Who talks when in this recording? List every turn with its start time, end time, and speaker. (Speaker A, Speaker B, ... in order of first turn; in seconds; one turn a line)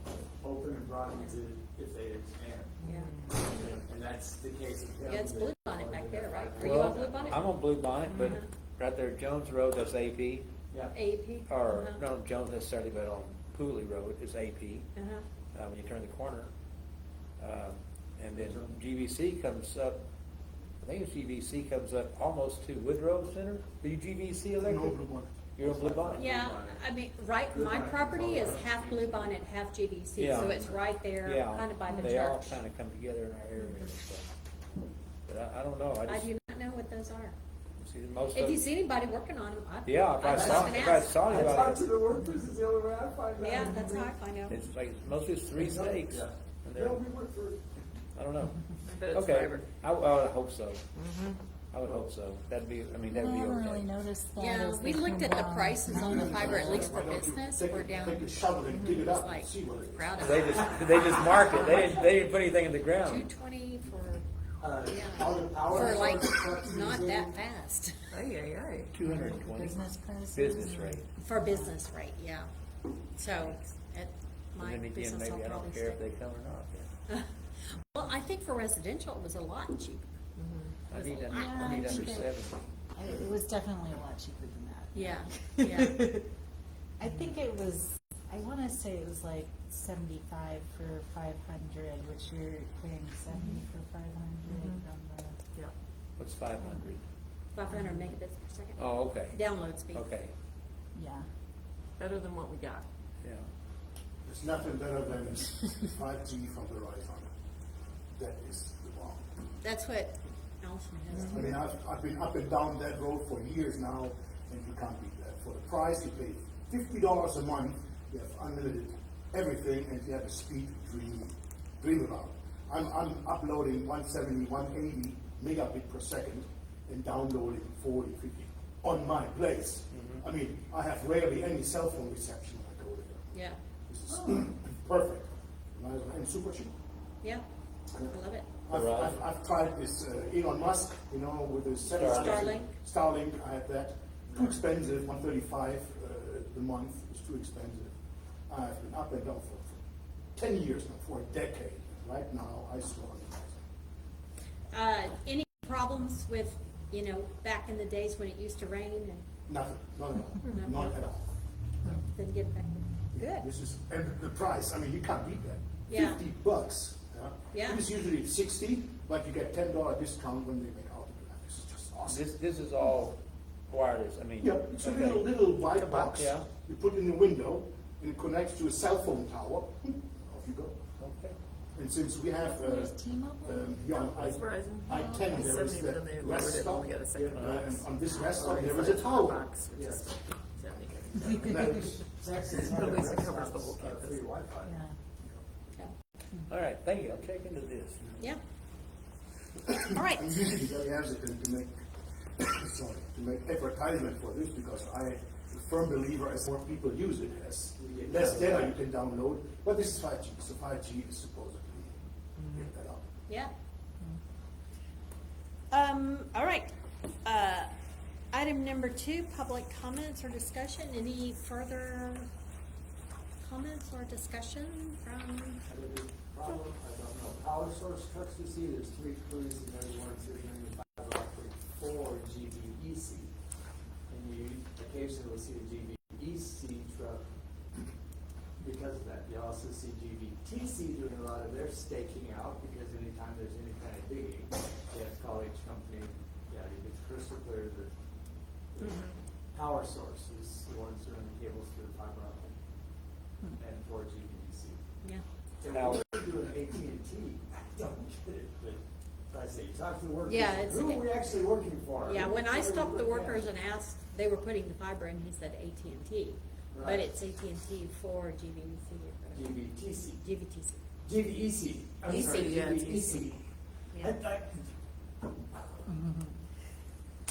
Speaker A: 0.4-2.8
Speaker B: 2.8-3.4
Speaker C: 2.8-3.7
Speaker A: 3.5-7.5
Speaker C: 5.0-7.5
Speaker D: 6.6-10.5
Speaker B: 8.1-8.4
Speaker C: 8.1-8.5
Speaker A: 10.7-10.9
Speaker C: 10.9-12.0
Speaker D: 11.5-14.9
Speaker C: 14.9-15.2
Speaker D: 15.5-16.5
Speaker D: 17.4-20.0
Speaker A: 18.3-18.8
Speaker D: 20.8-25.0
Speaker E: 24.6-25.3
Speaker D: 25.6-26.3
Speaker A: 25.6-26.8
Speaker C: 26.2-32.6
Speaker A: 27.5-29.4
Speaker D: 30.2-34.3
Speaker A: 30.3-30.7
Speaker D: 35.2-36.3
Speaker C: 36.0-37.4
Speaker D: 37.8-38.6
Speaker C: 38.3-41.2
Speaker D: 39.9-42.0
Speaker A: 40.2-44.1
Speaker C: 43.4-44.6
Speaker D: 44.5-47.0
Speaker A: 45.5-47.6
Speaker D: 48.1-50.8
Speaker B: 48.9-49.6
Speaker B: 50.9-51.4
Speaker D: 51.7-53.9
Speaker A: 51.8-52.1
Speaker F: 53.1-56.9
Speaker C: 54.4-58.3
Speaker E: 56.1-60.4
Speaker B: 58.7-59.1
Speaker C: 59.1-62.3
Speaker D: 60.2-63.3
Speaker C: 63.0-64.2
Speaker A: 64.6-67.4
Speaker C: 64.8-68.1
Speaker B: 68.1-68.9
Speaker D: 68.9-71.1
Speaker F: 69.0-71.7
Speaker C: 71.2-72.5
Speaker C: 73.1-76.0
Speaker D: 74.6-76.9
Speaker C: 77.1-80.0
Speaker B: 80.4-80.8
Speaker D: 80.9-82.6
Speaker C: 80.9-82.1
Speaker F: 81.3-82.3
Speaker F: 82.9-85.5
Speaker C: 84.9-86.0
Speaker B: 85.6-86.2
Speaker F: 87.0-95.4
Speaker B: 93.3-93.7
Speaker B: 94.4-94.8
Speaker D: 96.2-97.0
Speaker C: 97.5-100.1
Speaker F: 97.7-98.0
Speaker D: 98.8-99.4
Speaker D: 99.9-100.3
Speaker F: 100.9-101.3
Speaker B: 102.0-102.8
Speaker D: 103.2-103.5
Speaker E: 104.2-107.3
Speaker E: 108.2-109.4
Speaker C: 109.6-111.6
Speaker B: 111.1-111.5
Speaker E: 111.3-133.3
Speaker D: 129.9-130.2
Speaker C: 133.3-133.6
Speaker E: 133.9-136.7
Speaker C: 138.0-138.5
Speaker E: 138.7-147.9
Speaker D: 138.7-139.2
Speaker C: 141.8-142.7
Speaker D: 141.9-142.6
Speaker E: 148.5-149.8
Speaker E: 150.3-153.6
Speaker C: 154.7-159.2
Speaker E: 159.5-161.3
Speaker C: 160.5-161.0
Speaker C: 162.1-163.5
Speaker E: 163.1-172.3
Speaker C: 165.9-166.2
Speaker C: 167.5-167.9
Speaker D: 172.1-173.2
Speaker D: 173.7-175.3
Speaker E: 174.4-180.8
Speaker B: 175.7-176.2
Speaker D: 176.1-176.5
Speaker D: 181.0-181.4
Speaker E: 181.8-189.4
Speaker F: 182.4-185.3
Speaker B: 184.1-191.5
Speaker A: 187.1-187.6
Speaker D: 187.4-187.6
Speaker A: 188.3-189.0
Speaker A: 189.7-190.0
Speaker E: 190.7-192.0
Speaker A: 191.5-194.8
Speaker B: 192.6-194.3
Speaker F: 194.6-194.9
Speaker D: 196.5-198.2
Speaker E: 199.7-201.8
Speaker C: 199.9-200.4
Speaker E: 202.4-211.9
Speaker A: 207.8-208.8
Speaker E: 212.5-213.0
Speaker C: 215.7-216.7
Speaker C: 217.2-217.7
Speaker C: 218.3-222.3
Speaker C: 223.4-225.6
Speaker A: 225.7-233.3
Speaker A: 234.1-237.2
Speaker A: 238.6-247.9
Speaker A: 248.7-252.5
Speaker A: 253.6-254.8
Speaker A: 255.6-263.5
Speaker D: 255.7-256.0
Speaker C: 260.2-261.1
Speaker C: 262.0-269.6
Speaker A: 266.7-267.1
Speaker A: 269.3-270.3
Speaker C: 270.2-270.8
Speaker A: 271.0-273.4
Speaker B: 272.0-273.3
Speaker C: 273.9-274.2
Speaker A: 273.9-274.7